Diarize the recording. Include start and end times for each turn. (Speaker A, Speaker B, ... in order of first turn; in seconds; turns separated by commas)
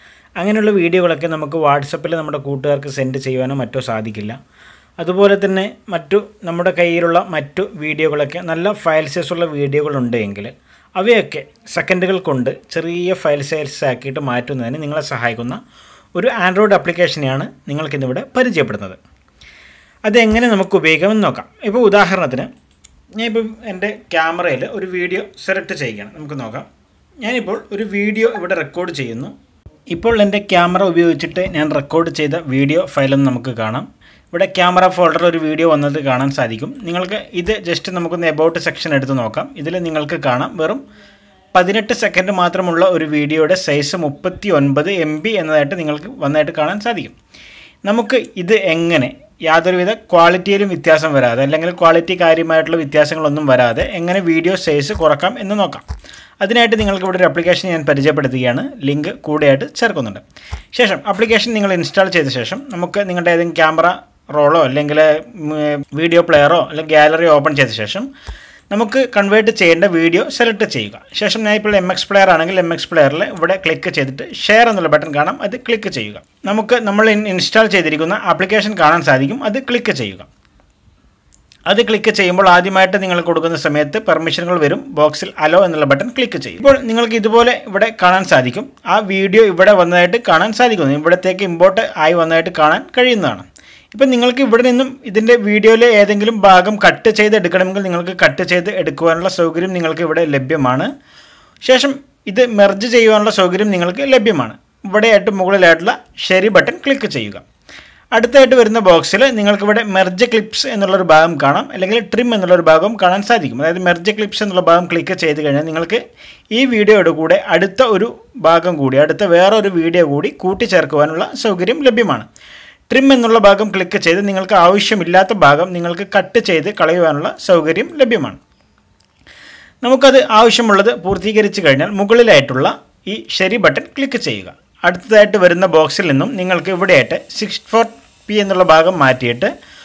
Speaker A: 0.4-4.4, Speaker A: 5.0-15.6, Speaker A: 16.1-19.0, Speaker A: 20.1-22.5, Speaker A: 23.1-26.7, Speaker A: 27.2-29.3, Speaker A: 29.9-40.8, Speaker A: 41.5-47.1, Speaker A: 47.9-55.8, Speaker A: 56.4-68.1, Speaker A: 68.7-80.3, Speaker A: 81.7-100.9, Speaker A: 101.6-107.4, Speaker A: 108.1-122.3, Speaker A: 122.9-128.4, Speaker A: 129.8-139.5